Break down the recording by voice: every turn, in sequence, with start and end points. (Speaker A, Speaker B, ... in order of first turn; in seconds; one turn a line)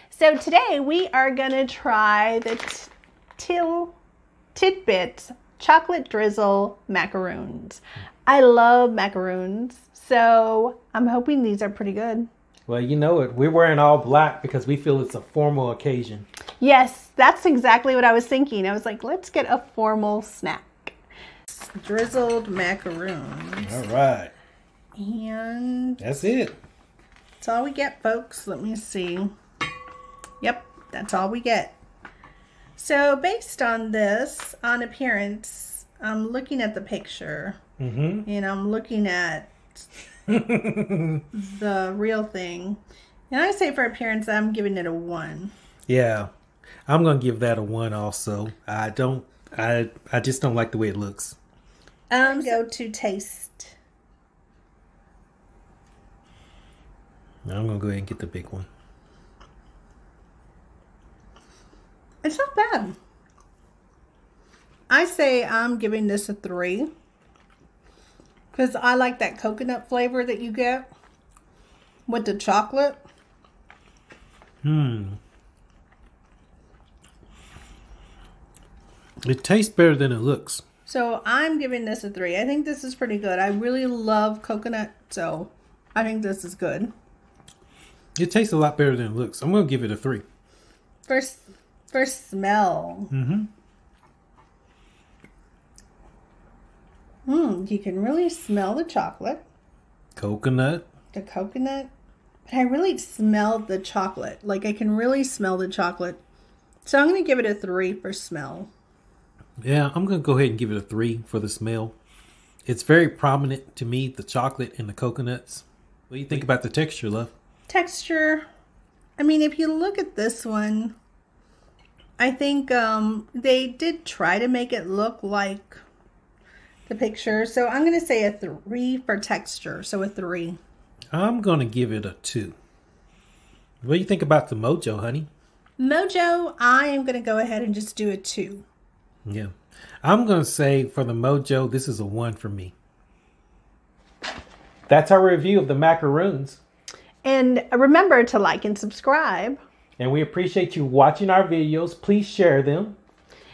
Speaker A: 0.1-4.0
Speaker A: 4.5-12.3
Speaker B: 12.7-16.2
Speaker A: 16.6-20.9
Speaker A: 21.5-23.8
Speaker B: 23.6-24.3
Speaker A: 25.0-26.0
Speaker B: 26.0-26.6
Speaker A: 27.4-29.3
Speaker A: 30.4-31.8
Speaker A: 32.8-37.6
Speaker B: 37.8-38.3
Speaker A: 38.2-39.9
Speaker B: 40.3-41.2
Speaker A: 41.3-45.5
Speaker B: 45.9-46.3
Speaker B: 46.9-51.4
Speaker A: 52.1-53.8
Speaker B: 57.5-58.7
Speaker A: 62.2-63.0
Speaker A: 64.9-66.9
Speaker A: 68.5-70.9
Speaker A: 72.1-73.0
Speaker B: 74.6-75.2
Speaker B: 79.2-80.6
Speaker A: 80.9-86.9
Speaker B: 88.2-90.2
Speaker A: 91.1-93.1
Speaker B: 93.1-93.5
Speaker A: 97.3-99.4
Speaker B: 100.2-100.9
Speaker A: 101.1-101.9
Speaker A: 102.5-106.2
Speaker A: 106.8-108.7
Speaker B: 109.6-112.0
Speaker B: 112.7-117.3
Speaker A: 117.7-118.4
Speaker A: 119.2-120.9
Speaker A: 122.2-125.8
Speaker A: 126.9-130.6
Speaker B: 131.1-132.5
Speaker B: 133.8-135.3
Speaker A: 135.8-138.7
Speaker B: 139.2-139.5
Speaker B: 140.0-142.7
Speaker B: 144.9-146.6
Speaker A: 147.2-149.6
Speaker B: 150.0-152.9